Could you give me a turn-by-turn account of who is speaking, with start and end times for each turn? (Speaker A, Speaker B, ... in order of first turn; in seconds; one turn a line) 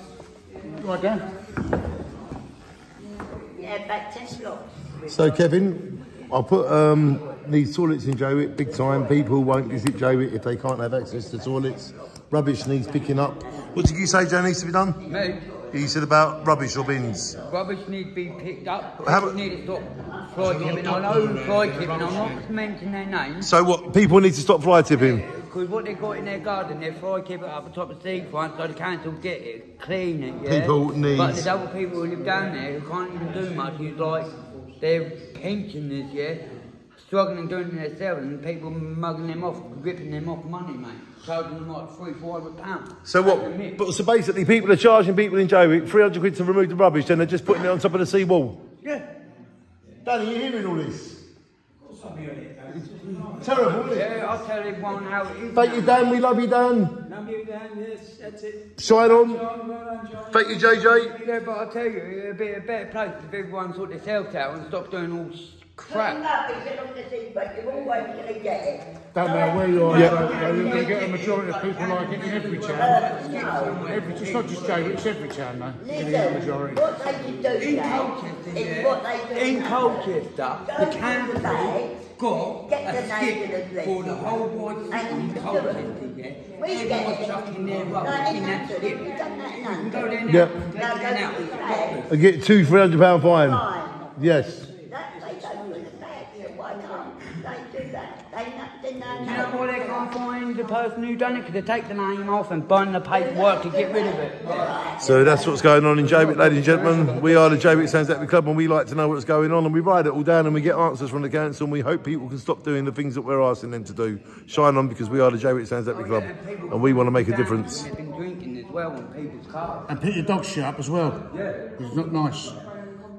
Speaker A: 0.8-1.2
Speaker B: 3.5-5.4
Speaker C: 5.1-15.0
Speaker D: 15.0-15.5
Speaker C: 15.7-17.4
Speaker D: 17.4-23.5
Speaker C: 19.0-19.4
Speaker C: 20.4-22.4
Speaker A: 20.8-22.2
Speaker C: 23.4-25.2
Speaker D: 24.9-43.8
Speaker C: 30.4-31.5
Speaker C: 43.0-48.6
Speaker C: 50.0-51.2
Speaker E: 52.1-52.5
Speaker D: 52.7-53.3
Speaker C: 53.4-54.1
Speaker D: 53.8-56.2
Speaker C: 55.5-56.9
Speaker E: 57.2-58.4
Speaker D: 57.2-58.4
Speaker C: 58.8-59.5
Speaker E: 59.8-60.0
Speaker C: 60.2-61.1
Speaker D: 61.0-66.2
Speaker B: 65.8-71.0
Speaker A: 69.1-73.0
Speaker C: 69.9-70.2
Speaker D: 69.9-75.2
Speaker B: 72.8-73.9
Speaker A: 73.8-76.9
Speaker B: 75.8-82.0
Speaker D: 77.5-92.1
Speaker B: 82.5-84.4
Speaker B: 84.9-85.9
Speaker B: 86.6-92.1
Speaker C: 90.3-90.6
Speaker C: 92.1-93.6
Speaker B: 93.2-94.0
Speaker C: 94.2-94.7
Speaker B: 94.8-100.1
Speaker D: 99.2-104.8
Speaker B: 103.1-105.6
Speaker C: 105.0-117.9
Speaker A: 106.0-107.8
Speaker D: 115.9-119.9
Speaker A: 119.9-121.2
Speaker D: 121.3-121.7
Speaker A: 121.8-122.6